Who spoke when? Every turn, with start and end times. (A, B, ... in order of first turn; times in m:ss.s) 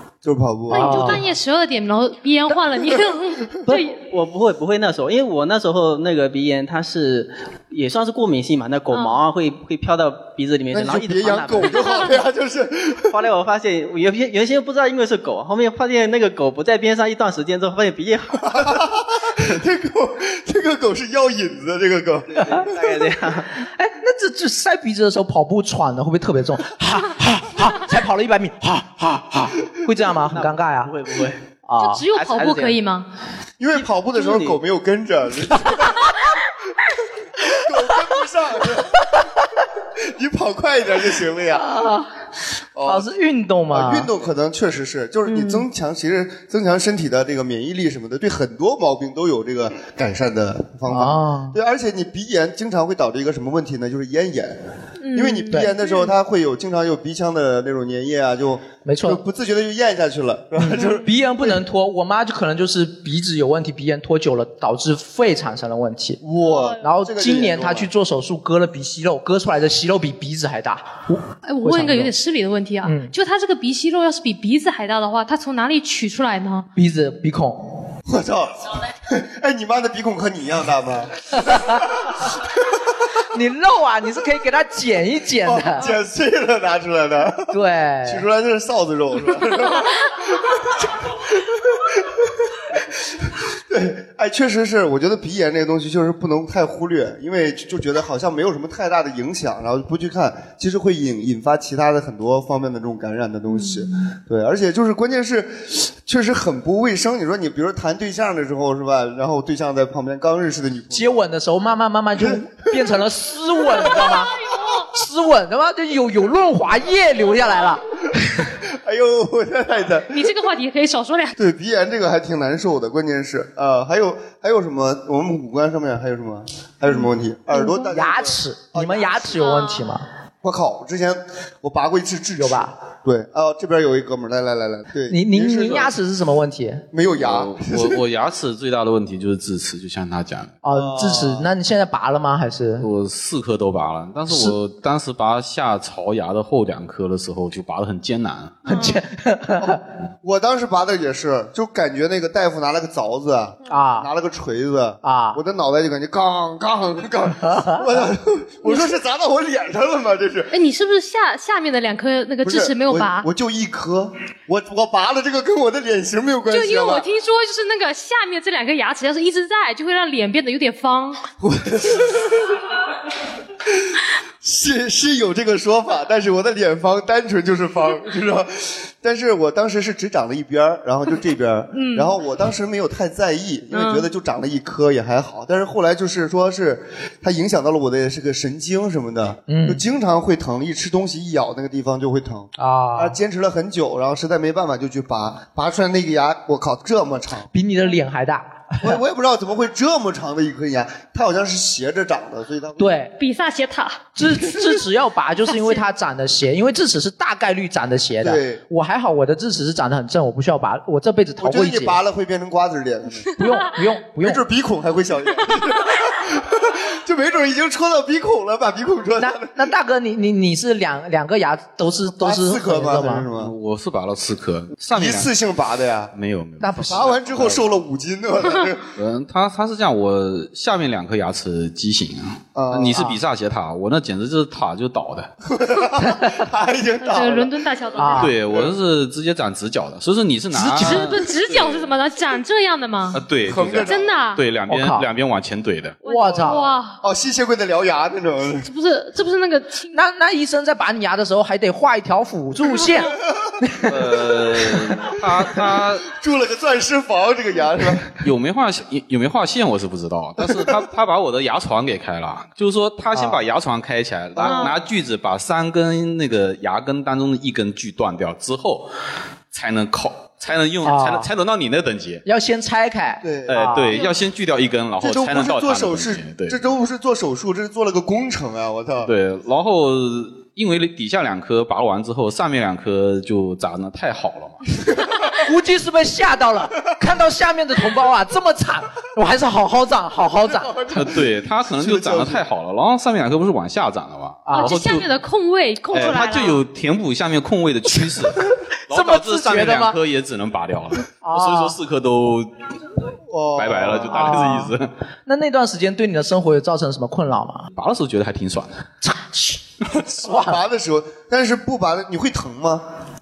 0:00.2-0:01.2 A
0:00.7-0:04.0 B
0:00.7-0:01.2 C
0:03.7-0:11.9 D
0:08.9-0:09.2 B
0:10.7-0:13.2 A
0:13.1-0:18.8 D
0:18.4-0:22.8 A
0:22.4-0:23.5 D
0:23.6-0:30.9 C
0:30.3-0:31.4 D
0:31.6-0:32.1 C
0:31.8-0:33.1 B
0:32.1-0:32.8 D
0:33.6-0:36.1 A
0:34.2-0:34.6 D
0:37.5-0:39.1 A
0:40.0-0:41.7 A
0:41.6-0:42.1 C
0:42.8-0:43.1 A
0:42.8-0:44.1 C
0:43.7-0:54.6 A
0:50.9-0:51.6 C
0:55.0-0:56.1 B
0:55.1-1:01.6 A
0:58.8-0:59.2 C
1:00.6-1:06.2 C
1:06.2-1:07.9 A
1:06.4-1:06.8 B
1:06.8-1:12.1 C
1:11.5-1:16.7 B
1:12.8-1:13.1 C
1:16.8-1:17.9 C
1:18.1-1:22.4 A
1:21.4-1:21.8 C
1:23.3-1:25.9 C
1:25.4-1:30.9 A
1:27.5-1:28.2 C
1:31.7-1:32.2 A
1:32.7-1:51.2 A
1:50.9-1:54.3 C
1:52.2-1:52.9 A
1:54.9-1:57.8 C
1:58.6-2:00.3 A
2:00.1-2:01.4 B
2:01.4-2:09.4 A
2:07.5-2:10.1 C
2:09.4-2:09.9 B
2:10.4-2:15.9 A
2:12.4-2:12.7 C
2:15.1-2:16.9 C
2:16.9-2:18.0 A
2:17.2-2:20.6 E
2:20.6-2:22.9 C
2:20.7-2:21.5 A
2:22.8-2:28.6 E
2:24.3-2:24.6 C
2:28.7-2:29.0 B
2:28.7-2:29.8 C
2:29.6-2:40.5 A
2:33.7-2:34.1 C
2:35.0-2:35.4 C
2:37.4-2:37.8 C
2:40.5-2:43.3 B
2:42.4-2:47.1 A
2:46.5-2:51.2 B
2:51.4-2:52.6 A
2:53.9-3:17.5 A
3:01.7-3:02.1 B
3:03.7-3:04.1 B
3:09.5-3:09.8 C
3:12.6-3:13.2 C
3:17.5-3:19.0 C
3:18.8-3:22.9 A
3:22.8-3:23.1 C
3:23.2-3:24.1 B
3:24.2-3:32.0 C
3:25.5-3:25.8 B
3:28.2-3:28.6 A
3:31.4-3:33.3 A
3:33.4-3:34.4 C
3:34.2-3:39.6 A
3:39.2-3:43.3 C
3:42.1-3:43.5 A
3:43.3-3:45.3 E
3:44.9-3:46.1 A
3:46.1-3:47.7 E
3:46.6-3:47.1 C
3:46.9-3:48.9 A
3:49.0-3:55.3 E
3:52.6-3:53.0 A
3:52.9-3:53.2 C
3:55.4-3:57.5 A
3:56.1-3:56.3 C
3:57.0-3:58.3 B
3:58.0-3:58.3 C
3:58.2-4:02.0 E
3:58.5-3:58.7 A
4:00.5-4:01.1 C
4:00.7-4:03.2 B
4:03.1-4:06.0 E
4:03.5-4:04.2 A
4:03.8-4:04.4 B
4:04.7-4:05.1 C
4:06.0-4:07.0 B
4:06.0-4:06.7 C
4:07.0-4:08.7 A
4:08.6-4:10.0 B
4:09.9-4:13.9 C
4:13.9-4:16.1 E
4:16.1-4:18.1 A
4:18.2-4:28.9 E
4:24.4-4:24.8 B
4:29.5-4:32.2 E
4:30.8-4:31.3 C
4:32.2-4:34.0 C
4:33.2-4:33.8 A
4:33.5-4:36.6 E
4:33.9-4:34.2 B
4:35.0-4:39.1 A
4:39.0-4:44.6 E
4:45.4-4:50.8 C
4:50.5-4:52.4 A
4:50.9-4:55.1 E
4:54.4-4:54.7 C
4:54.5-4:56.6 B
4:55.9-5:02.5 E
4:58.9-5:00.0 C
5:01.2-5:01.8 C
5:03.3-5:04.3 A
5:03.6-5:04.9 E
5:04.0-5:04.7 C
5:05.3-5:07.7 C
5:07.7-5:08.8 E
5:09.0-5:09.6 C
5:09.9-5:12.9 A
5:10.2-5:10.6 C